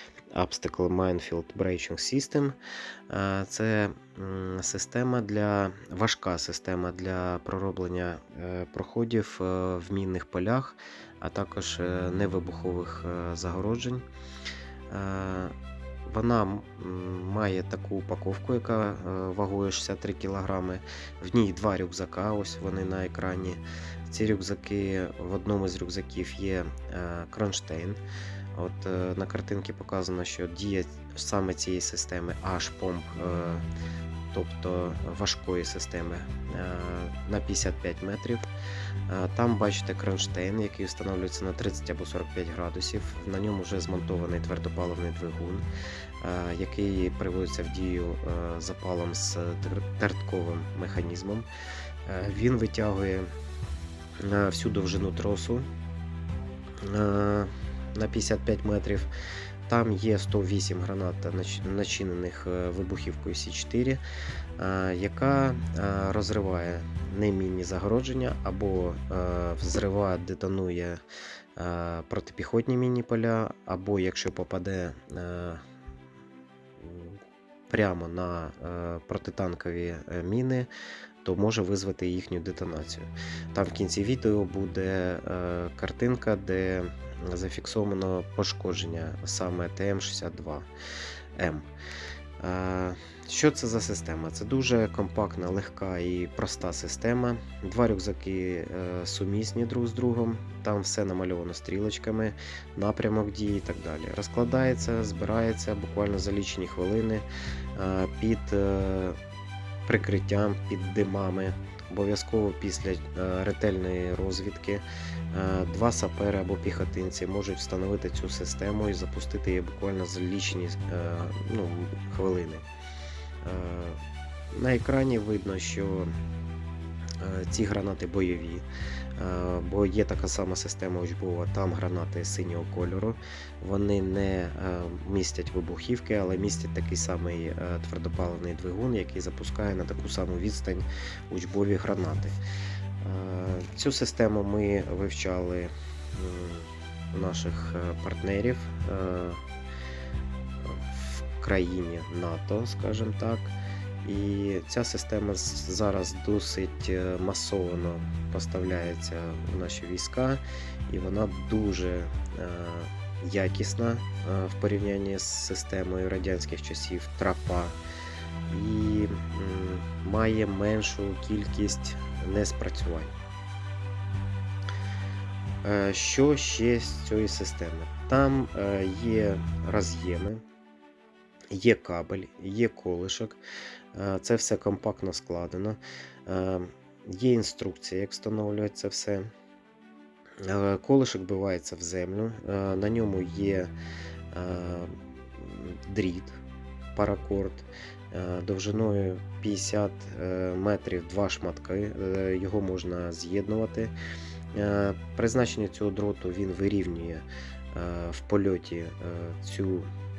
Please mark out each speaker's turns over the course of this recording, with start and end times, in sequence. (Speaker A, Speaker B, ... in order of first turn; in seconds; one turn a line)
Speaker A: 0.3-2.5
Speaker A: 3.1-14.0
Speaker A: 14.9-15.5
Speaker A: 16.1-28.0
Speaker A: 28.5-33.6
Speaker A: 34.3-38.5
Speaker A: 39.1-45.6
Speaker A: 46.2-51.5
Speaker A: 52.0-53.3
Speaker A: 54.2-55.7
Speaker A: 56.8-59.1
Speaker A: 59.7-64.0
Speaker A: 64.6-71.0
Speaker A: 71.5-75.6
Speaker A: 76.8-80.7
Speaker A: 81.2-90.7
Speaker A: 91.3-91.7
Speaker A: 92.4-109.2
Speaker A: 109.9-122.7
Speaker A: 123.4-124.0
Speaker A: 124.5-126.1
Speaker A: 127.2-128.7
Speaker A: 129.2-142.4
Speaker A: 143.0-149.4
Speaker A: 150.6-167.8
Speaker A: 168.5-173.1
Speaker A: 175.6-180.4
Speaker A: 181.5-183.4
Speaker A: 183.9-189.3
Speaker A: 190.4-193.7
Speaker A: 194.3-196.4
Speaker A: 196.9-203.9
Speaker A: 204.5-209.9